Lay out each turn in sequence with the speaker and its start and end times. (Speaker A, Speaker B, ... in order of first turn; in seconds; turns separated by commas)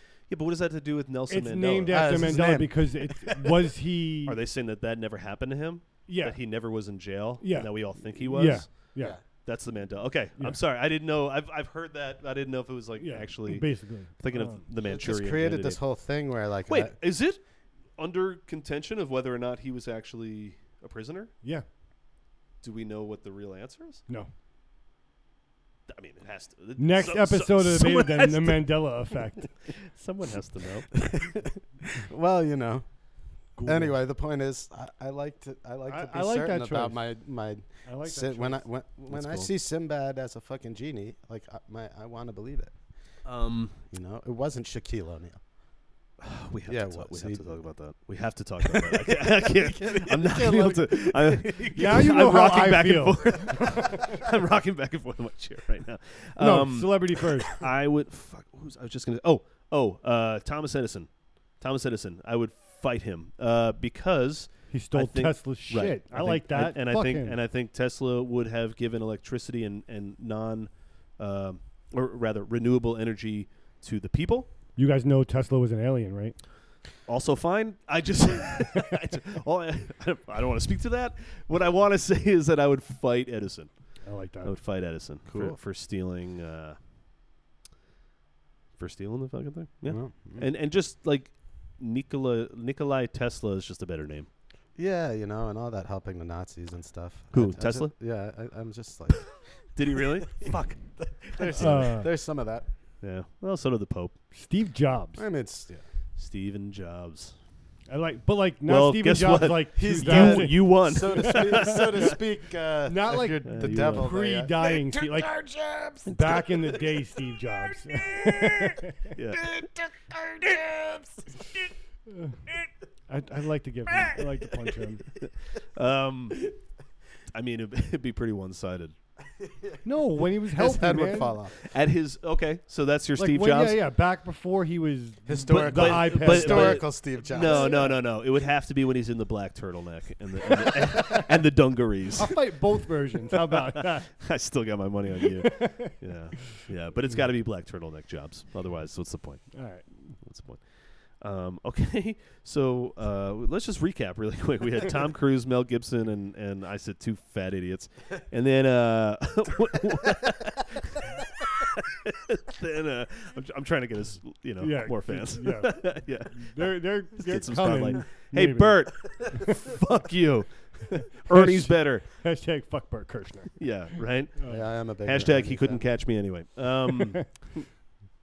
Speaker A: 0.3-2.1, Speaker B: 1.3-4.4, Speaker C: 1.9-3.6, Speaker A: 4.3-8.9, Speaker B: 6.1-6.4, Speaker B: 7.4-9.2, Speaker A: 9.4-15.8, Speaker B: 13.0-14.6, Speaker C: 14.8-17.0, Speaker A: 16.7-17.4, Speaker A: 18.0-21.3, Speaker A: 22.6-24.0, Speaker A: 25.9-28.8, Speaker B: 26.8-29.5, Speaker A: 29.7-31.0, Speaker C: 30.9-32.9, Speaker B: 33.6-34.0, Speaker C: 33.6-42.7, Speaker B: 35.9-37.0, Speaker B: 37.9-38.6, Speaker A: 39.1-39.5, Speaker A: 43.2-43.8, Speaker C: 43.9-45.4, Speaker A: 46.2-74.5, Speaker C: 46.7-47.4, Speaker C: 48.6-51.4, Speaker B: 51.7-54.0, Speaker B: 56.4-57.6, Speaker B: 64.7-67.4, Speaker B: 74.8-76.4, Speaker A: 77.1-83.7, Speaker B: 84.0-84.5, Speaker A: 84.4-86.8, Speaker C: 85.3-85.6, Speaker A: 88.8-94.3, Speaker C: 89.9-90.5, Speaker C: 94.8-99.3, Speaker A: 97.3-97.9, Speaker A: 99.8-101.9, Speaker C: 100.4-102.7, Speaker B: 101.5-102.1, Speaker A: 103.0-104.2, Speaker B: 104.3-105.2, Speaker C: 105.2-105.8, Speaker A: 106.2-107.4, Speaker B: 107.9-112.1, Speaker A: 108.7-112.1, Speaker C: 109.8-117.0, Speaker B: 112.9-115.4, Speaker A: 113.5-114.1, Speaker B: 116.0-119.1, Speaker C: 118.1-118.8, Speaker A: 119.1-119.5, Speaker C: 119.4-121.4, Speaker B: 122.1-122.4, Speaker B: 123.1-125.0, Speaker A: 125.2-126.5, Speaker A: 127.3-128.9, Speaker C: 129.4-129.8, Speaker B: 129.8-131.4, Speaker C: 130.4-131.6, Speaker A: 131.6-133.8, Speaker B: 133.2-136.9, Speaker C: 135.3-137.9, Speaker A: 135.5-142.4, Speaker B: 137.5-137.9, Speaker B: 142.2-144.1, Speaker A: 143.4-149.6, Speaker B: 145.2-145.9, Speaker B: 149.5-149.9, Speaker A: 150.1-150.6, Speaker A: 151.2-172.1, Speaker B: 164.6-169.4, Speaker B: 171.3-173.7, Speaker A: 173.6-174.3, Speaker B: 174.4-174.6, Speaker C: 174.5-175.9, Speaker A: 175.0-177.6, Speaker B: 177.0-177.2